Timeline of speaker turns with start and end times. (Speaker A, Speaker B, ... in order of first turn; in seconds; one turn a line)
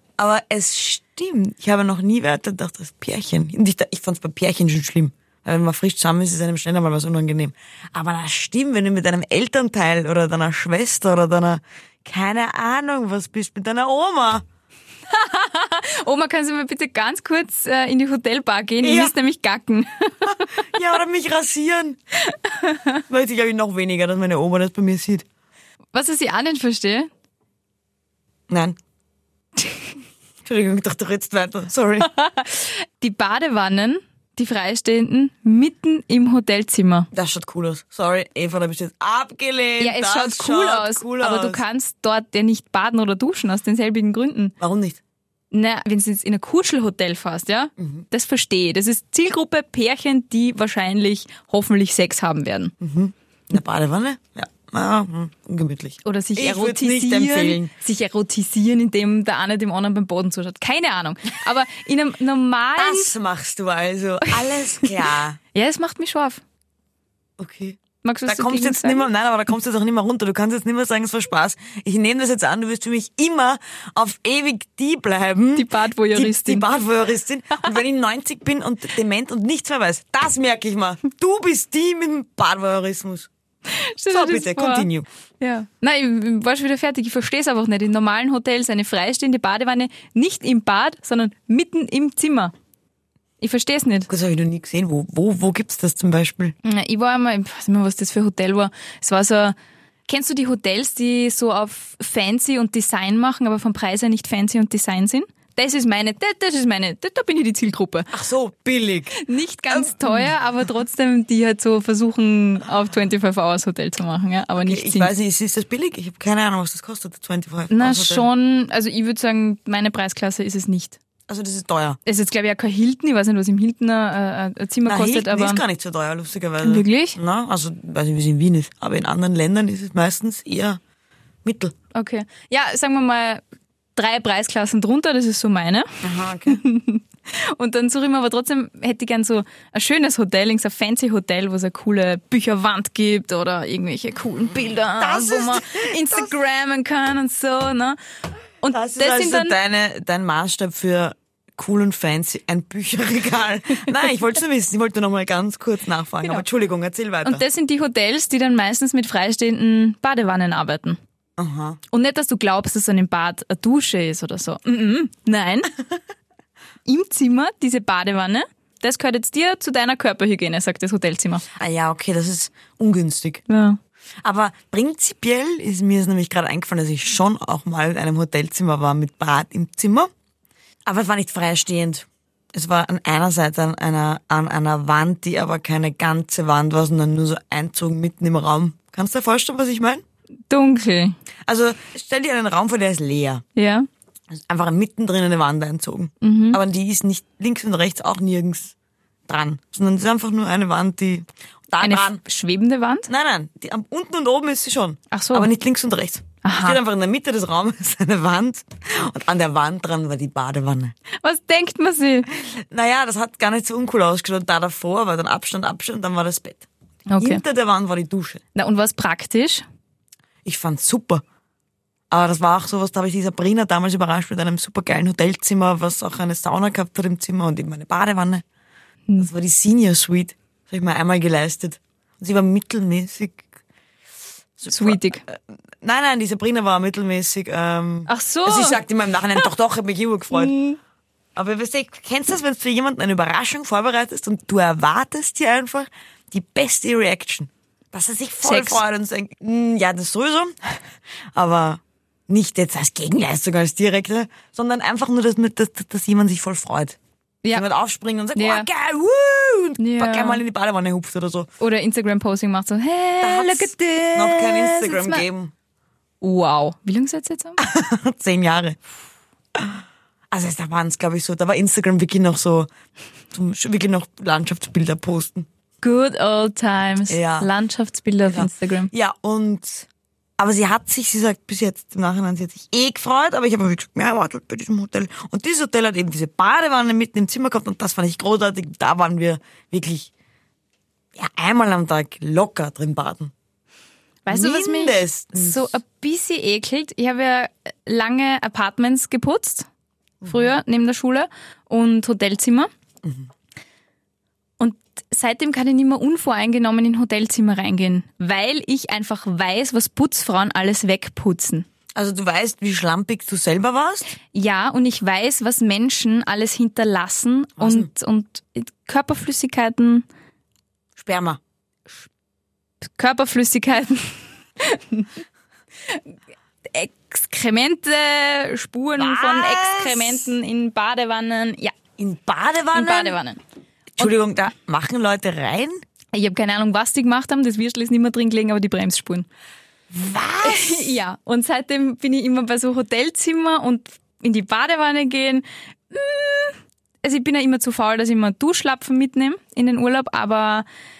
Speaker A: 0.2-14.4
Speaker B: 15.1-20.5
Speaker A: 18.8-19.1
Speaker A: 20.3-22.0
Speaker A: 23.1-25.2
Speaker B: 25.9-27.1
Speaker A: 28.5-28.8
Speaker A: 30.4-32.1
Speaker B: 32.1-37.1
Speaker A: 37.1-41.6
Speaker B: 39.8-44.5
Speaker A: 44.6-45.0
Speaker B: 45.5-52.7
Speaker A: 47.8-48.0
Speaker A: 52.8-57.7
Speaker B: 56.0-63.1
Speaker A: 62.8-65.4
Speaker B: 64.2-66.4
Speaker A: 67.4-83.3
Speaker B: 68.0-69.1
Speaker B: 75.5-76.7
Speaker B: 83.7-92.5
Speaker A: 84.1-85.0
Speaker B: 93.4-94.1
Speaker A: 94.1-96.5
Speaker B: 96.6-99.5
Speaker B: 100.1-108.2
Speaker A: 108.1-110.3
Speaker B: 109.1-115.1
Speaker A: 114.6-118.3
Speaker B: 117.7-121.0
Speaker A: 121.3-122.0
Speaker B: 122.0-125.6
Speaker A: 124.8-130.8
Speaker B: 126.6-127.2
Speaker A: 131.4-131.7
Speaker B: 131.9-133.4
Speaker B: 133.9-135.9
Speaker A: 136.0-136.6
Speaker B: 136.4-148.0
Speaker A: 145.0-146.3
Speaker B: 148.6-149.6
Speaker A: 148.7-157.4
Speaker B: 157.2-161.0
Speaker A: 161.4-161.8
Speaker B: 161.9-165.8
Speaker B: 166.8-171.4
Speaker A: 171.6-173.4
Speaker B: 173.5-173.8
Speaker A: 174.2-180.1
Speaker A: 180.8-190.0
Speaker B: 190.5-191.2
Speaker A: 191.5-193.4
Speaker B: 193.5-193.9
Speaker A: 194.3-198.7
Speaker B: 196.2-196.6
Speaker A: 199.3-202.2
Speaker B: 201.8-203.1
Speaker A: 203.1-210.9
Speaker B: 205.1-205.5
Speaker B: 206.4-206.8
Speaker B: 211.2-212.3
Speaker A: 212.3-216.7
Speaker B: 217.1-217.4
Speaker A: 217.2-218.4
Speaker B: 218.5-219.6
Speaker A: 220.4-221.2
Speaker A: 222.1-228.4
Speaker A: 229.2-233.4
Speaker A: 234.6-240.6
Speaker B: 234.7-235.2
Speaker B: 238.1-239.5
Speaker B: 240.3-240.8
Speaker A: 241.3-250.8
Speaker B: 248.4-248.8
Speaker A: 251.3-257.0
Speaker A: 257.5-261.5
Speaker B: 258.3-258.7
Speaker B: 259.8-260.4
Speaker B: 261.6-265.2
Speaker A: 263.2-265.5
Speaker B: 266.2-267.6
Speaker A: 267.6-268.8
Speaker A: 269.6-272.7
Speaker A: 273.3-275.5
Speaker B: 275.8-278.9
Speaker A: 277.1-277.5
Speaker A: 278.2-279.9
Speaker A: 280.4-290.1
Speaker A: 291.1-293.3
Speaker B: 294.2-299.7
Speaker A: 294.3-295.7
Speaker A: 300.2-300.5
Speaker B: 300.2-302.7
Speaker A: 303.0-303.3
Speaker B: 304.6-311.7
Speaker A: 311.9-314.1
Speaker B: 314.3-320.1
Speaker A: 317.6-317.9
Speaker A: 320.9-321.4
Speaker B: 322.8-325.1
Speaker B: 325.9-326.1
Speaker B: 326.6-331.7
Speaker A: 329.0-330.3
Speaker A: 332.0-333.2
Speaker B: 332.7-333.4
Speaker A: 334.0-335.8
Speaker B: 336.1-339.3
Speaker A: 339.9-341.0
Speaker B: 340.4-350.6